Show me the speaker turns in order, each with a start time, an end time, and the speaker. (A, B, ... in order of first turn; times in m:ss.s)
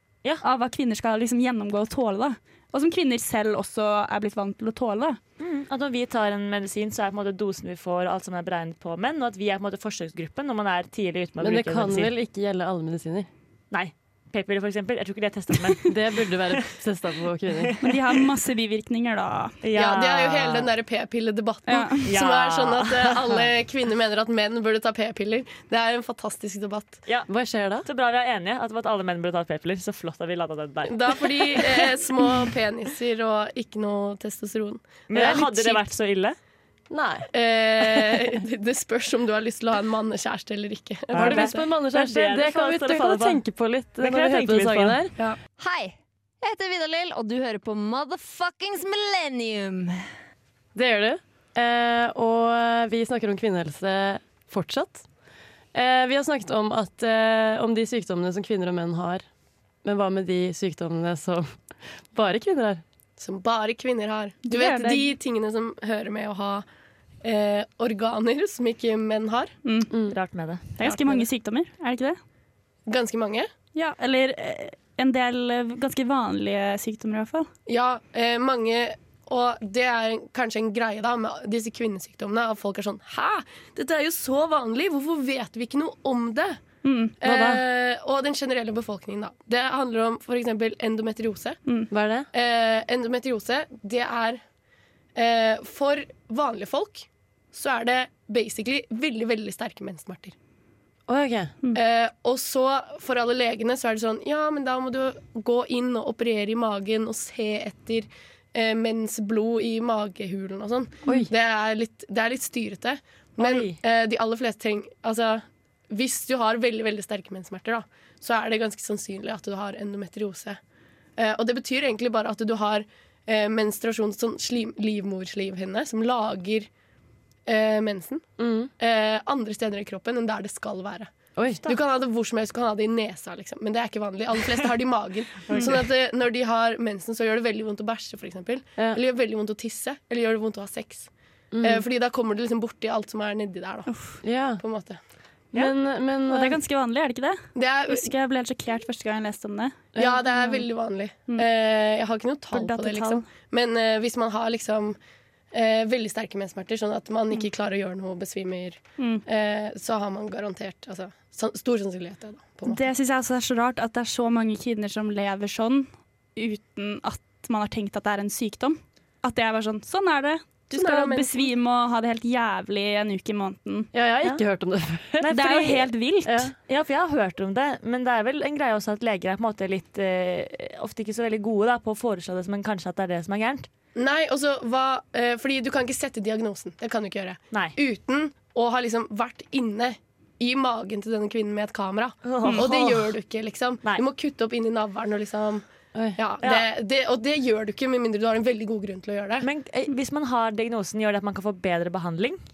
0:00.4-0:05.2 A
0:05.4-0:12.1 B
0:11.4-0:13.3 C
0:13.7-0:16.0 B
0:15.9-0:17.7 C
0:17.6-0:18.2 B
0:17.8-0:19.6 A
0:19.6-0:20.7 B
0:19.8-0:27.0 D
0:21.7-0:22.1 A
0:22.1-0:23.4 B
0:27.3-0:27.9 C
0:27.8-0:31.8 B
0:30.9-0:35.5 D
0:35.1-0:36.4 B
0:35.1-0:35.6 C
0:36.9-0:37.3 C
0:37.3-0:41.6 D
0:41.1-0:43.4 B
0:41.1-0:45.1 C
0:44.0-0:45.0 B
0:45.6-0:50.0 E
0:50.7-0:55.0 C
0:55.7-0:59.2 C
0:59.8-1:02.8 C
1:03.2-1:06.6 D
1:04.4-1:05.1 A
1:07.2-1:09.5 D
1:09.6-1:09.9 A
1:09.9-1:10.2 C
1:10.1-1:10.7 B
1:10.8-1:12.2 A
1:10.8-1:11.2 D
1:12.9-1:13.5 D
1:13.7-1:17.5 A
1:17.7-1:26.6 D
1:26.8-1:27.2 A
1:27.2-1:31.6 D
1:27.2-1:27.6 C
1:31.9-1:32.3 C
1:32.3-1:34.4 D
1:35.1-1:40.3 D
1:41.1-1:41.5 C
1:41.7-2:00.6 D
1:53.4-1:53.8 B
2:01.2-2:06.7 D
2:07.5-2:08.2 D
2:08.4-2:08.7 C
2:08.8-2:11.1 D
2:11.4-2:11.6 C
2:11.6-2:21.1 D
2:15.5-2:15.8 B
2:21.5-2:21.8 C
2:21.6-2:23.9 D
2:23.9-2:24.2 A
2:24.2-2:24.6 C
2:24.6-2:25.0 D
2:25.5-2:26.6 C
2:26.3-2:30.6 A
2:27.5-2:28.1 D
2:30.0-2:35.0 D
2:32.5-2:33.2 A
2:35.5-2:42.8 D
2:39.0-2:39.2 A
2:42.6-2:53.9 A
2:50.7-2:51.5 D
2:53.9-2:55.5 C
2:55.2-3:03.7 B
2:55.3-2:56.5 A
2:56.2-2:56.5 C
3:04.0-3:15.6 D
3:12.2-3:12.7 B
3:16.2-3:19.4 D
3:19.4-3:22.4 B